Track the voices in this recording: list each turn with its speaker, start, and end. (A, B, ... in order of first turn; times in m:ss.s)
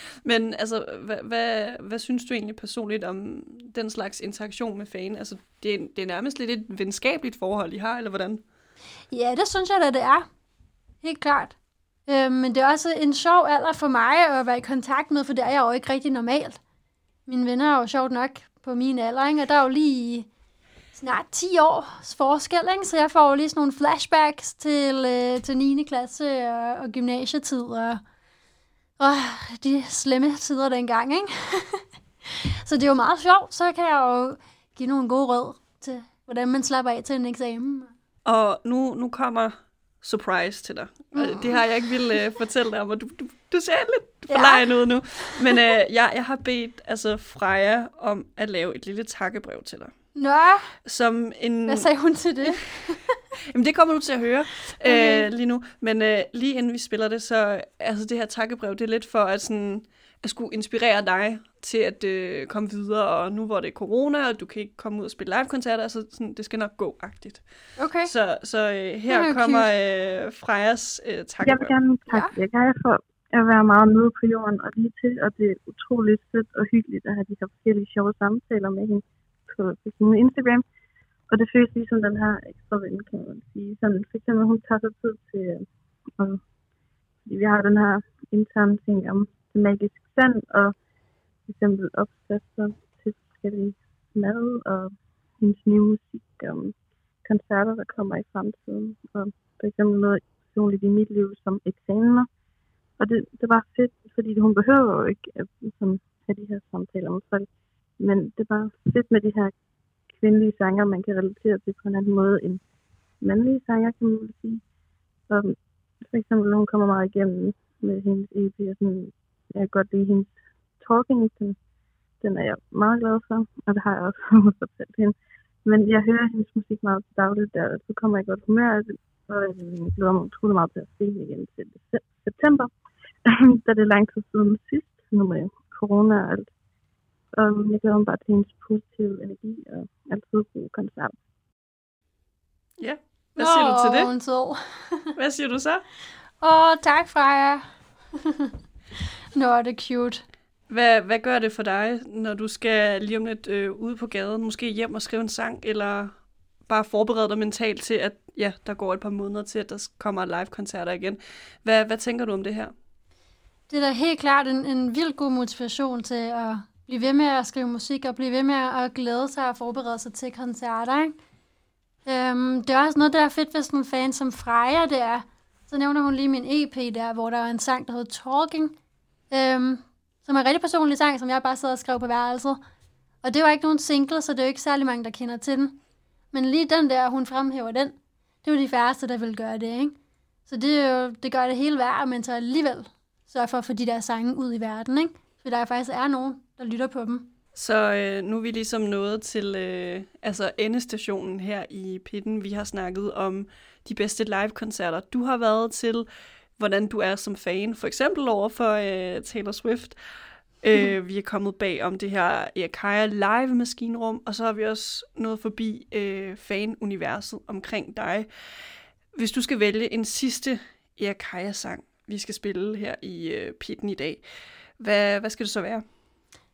0:00.2-0:08.4 A
0:09.1-0:10.3 B
0:11.0-0:11.6 B
0:12.1-0:16.6 B
0:17.3-0:20.3 B
0:20.9-0:28.0 B
0:29.0-0:37.9 B
0:38.2-0:49.9 A
0:41.1-0:41.6 B
0:44.3-0:45.7 B
0:50.1-0:50.7 B
0:50.8-0:51.9 A
0:51.7-0:53.1 B
0:53.5-1:07.4 A
0:54.8-0:55.3 B
1:07.8-1:08.1 B
1:08.0-1:11.8 A
1:09.1-1:09.7 B
1:11.4-1:20.6 C
1:12.1-1:12.3 B
1:21.3-1:25.7 C
1:27.2-1:30.7 C
1:31.4-1:36.7 C
1:37.2-1:42.3 C
1:43.0-1:49.5 C
1:50.2-1:52.6 C
1:53.2-1:54.6 C
1:55.3-1:55.6 C
1:56.1-2:01.6 C
2:02.2-2:12.7 C
2:13.2-2:16.5 C
2:17.4-2:21.1 C
2:22.8-2:24.1 A
2:23.4-2:25.2 B
2:25.2-2:25.8 A
2:26.4-2:27.6 B
2:28.2-2:28.5 B
2:29.3-2:30.2 B
2:30.7-2:36.1 A
2:36.7-2:42.7 A
2:43.7-2:51.2 B
2:52.0-2:58.7 B
2:59.3-3:02.6 B
3:03.2-3:05.8 B
3:06.3-3:17.3 B
3:17.5-3:26.1 A
3:26.6-3:30.0 A
3:30.6-3:38.3 A
3:39.1-3:44.2 A
3:44.8-3:45.8 A